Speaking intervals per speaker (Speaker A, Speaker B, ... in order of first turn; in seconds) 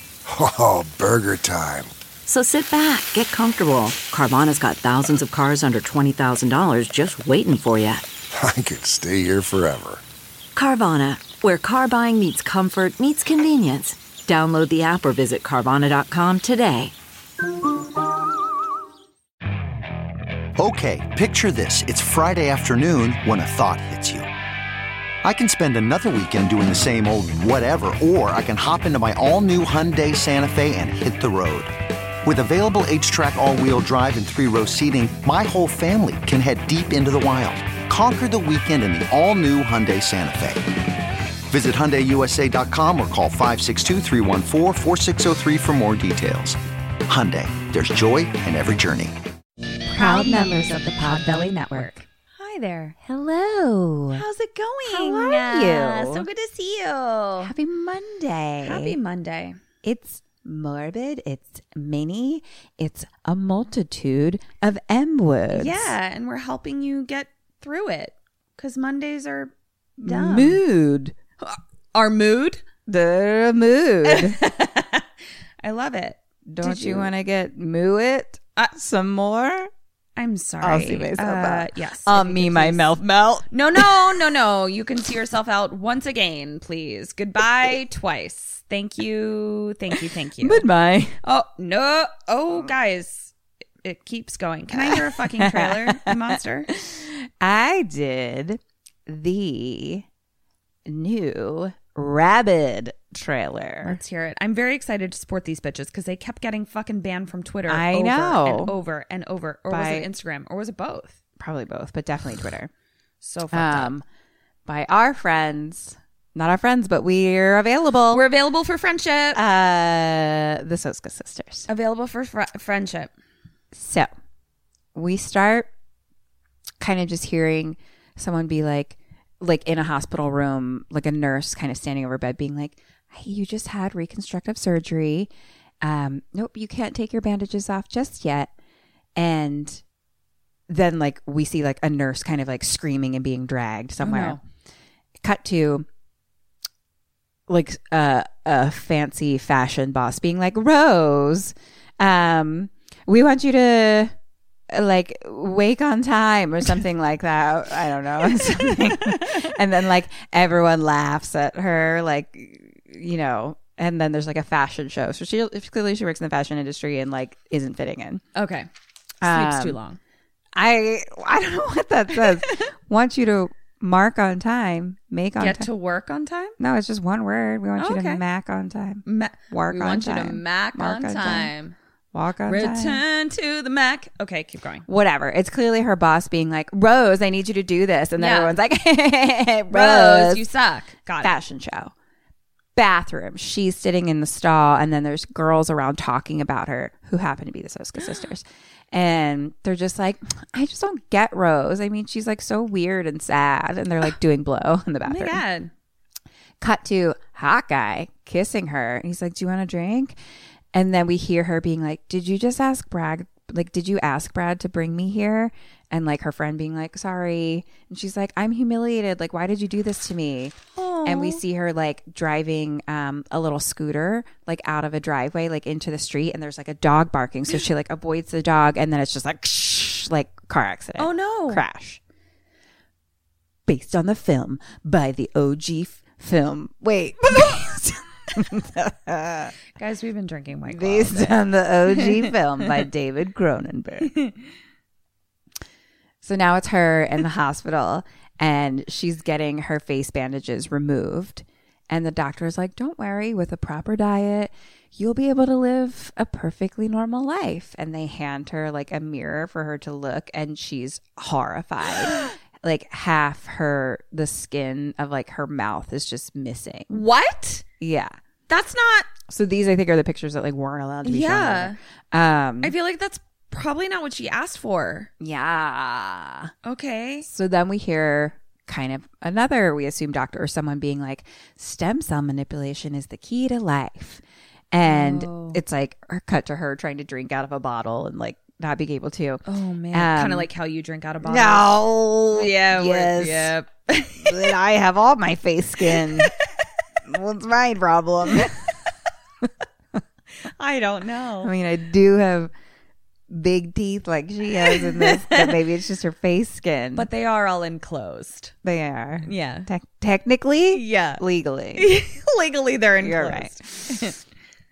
Speaker A: 0.3-1.9, 8.3-10.0
Speaker B: 2.2-8.0, 10.6-16.9
Speaker C: 20.6-24.3, 25.2-31.7, 32.2-40.6, 41.5-46.6, 47.1-49.1
Speaker D: 49.9-52.0, 53.0-54.2, 54.8-56.3, 57.4-59.0, 59.8-66.0, 70.0-71.2, 72.9-74.4, 76.5-79.7, 80.6-84.0, 90.4-91.2, 94.7-100.0, 100.9-104.0, 107.7-108.8, 109.7-110.1, 111.4-112.7, 113.5-114.0, 114.7-118.3, 119.3-121.7, 123.7-124.1, 125.0-125.7, 126.8-135.3, 135.8-138.5, 139.2-139.8, 140.7-144.4, 145.2-145.9, 147.5-154.1, 154.7-168.2, 169.2-169.8, 170.6-175.7, 176.6-181.5, 182.1-183.0, 184.9-190.5, 191.2-191.9, 192.8-205.4, 206.6-210.2, 210.7-232.0, 233.7-239.6, 240.7-244.1, 246.2-267.0, 267.8-268.1, 269.3-272.8, 275.2-276.5, 277.2-290.5, 291.2-293.6, 294.2-296.4, 297.0-298.7, 301.4-302.5, 303.3-307.1, 308.6-311.9, 313.0-314.1
Speaker E: 50.0-53.0, 54.1-57.5, 58.6-59.6, 65.5-70.6, 71.4-72.6, 74.0-75.0, 75.6-77.1, 80.2-82.9, 83.5-90.7, 91.2-96.7, 103.8-111.2, 113.2-113.9, 118.1-119.4, 121.7-123.1, 144.0-144.4, 158.4-159.5, 168.3-168.7, 169.2-170.0, 175.4-176.6, 177.8-178.2, 179.1-181.8, 182.4-184.8, 188.2-188.6, 189.7-191.4, 205.1-205.7, 220.8-221.4, 231.0-231.6, 239.8-242.7, 244.1-244.5, 266.9-267.6, 268.5-269.1, 271.0-271.8, 272.6-275.1, 276.6-277.2, 284.8-285.6, 289.5-291.7, 292.3-294.6, 300.4-301.5, 304.6-305.5, 306.9-308.5, 309.2-309.7, 310.7-311.2, 311.8-314.2